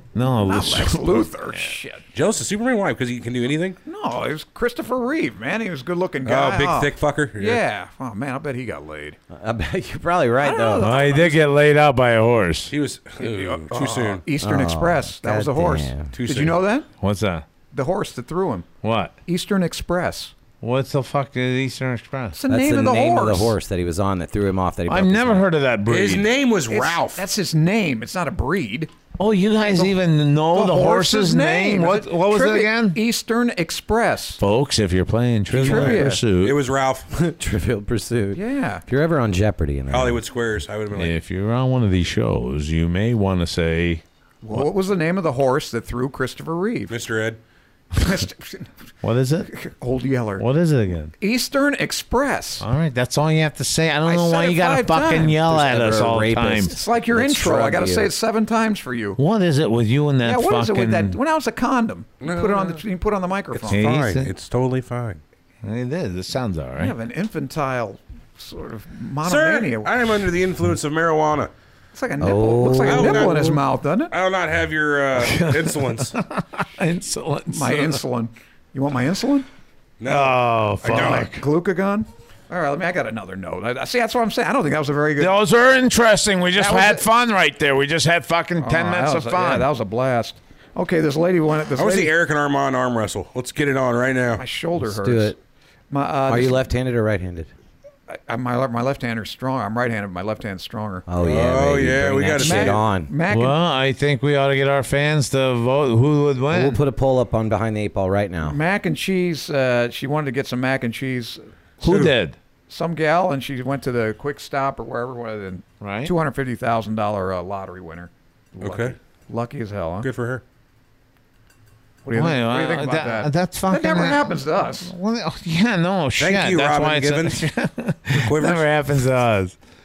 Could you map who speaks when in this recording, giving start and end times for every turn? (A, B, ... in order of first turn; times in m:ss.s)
0:00.2-0:01.3 A
0:00.2-0:02.0 B
0:02.1-0:03.8 C
0:03.8-0:09.2 B
0:06.2-0:07.6 C
0:09.3-0:10.9 D
0:10.4-0:11.6 B
0:10.8-0:12.7 A
0:12.7-0:14.2 C
0:13.2-0:16.9 B
0:14.4-0:16.1 D
0:16.1-0:16.6 C
0:17.0-0:17.4 A
0:17.7-0:18.7 B
0:18.8-0:19.2 A
0:19.3-0:20.4 B
0:20.6-0:22.4 A
0:22.3-0:23.6 B
0:22.5-0:25.5 D
0:24.9-0:26.3 A
0:25.9-0:27.2 C
0:26.7-0:28.9 B
0:29.2-0:33.0 A
0:30.5-0:34.4 B
0:34.4-0:36.6 A
0:35.5-0:37.1 C
0:35.5-0:36.2 B
0:37.1-0:40.2 D
0:38.3-0:38.8 B
0:39.9-0:41.2 C
0:40.9-0:44.7 A
0:44.4-0:46.9 B
0:46.9-0:47.4 C
0:48.0-0:48.7 B
0:49.0-0:49.5 A
0:49.5-0:50.5 B
0:50.4-0:51.1 A
0:51.2-0:52.7 B
0:52.6-0:56.7 A
0:54.1-0:55.5 B
0:55.5-0:58.1 D
0:56.7-0:59.2 B
0:59.2-1:01.2 A
1:00.2-1:04.0 B
1:02.2-1:02.8 C
1:03.5-1:05.2 C
1:03.7-1:04.3 A
1:05.6-1:06.9 A
1:06.8-1:09.9 B
1:09.2-1:11.5 C
1:11.9-1:14.1 B
1:12.2-1:13.3 D
1:12.8-1:16.2 C
1:15.2-1:18.0 A
1:17.5-1:19.5 B
1:20.0-1:21.3 C
1:20.1-1:21.4 A
1:20.8-1:25.4 B
1:25.2-1:29.7 A
1:26.5-1:27.1 B
1:28.6-1:32.1 B
1:31.8-1:34.4 C
1:34.4-1:35.3 B
1:34.8-1:35.4 D
1:35.9-1:36.6 B
1:36.3-1:37.5 D
1:38.1-1:41.1 B
1:41.1-1:43.1 D
1:41.2-1:42.8 C
1:42.4-1:43.6 B
1:43.3-1:46.8 A
1:46.5-1:48.6 D
1:48.4-1:52.1 B
1:51.8-1:52.4 A
1:51.9-1:52.1 C
1:52.7-2:00.1 B
1:55.8-1:56.1 A
1:58.6-1:59.0 C
2:00.0-2:00.4 C
2:02.0-2:04.9 B
2:02.1-2:09.6 A
2:06.2-2:07.4 C
2:08.1-2:08.7 C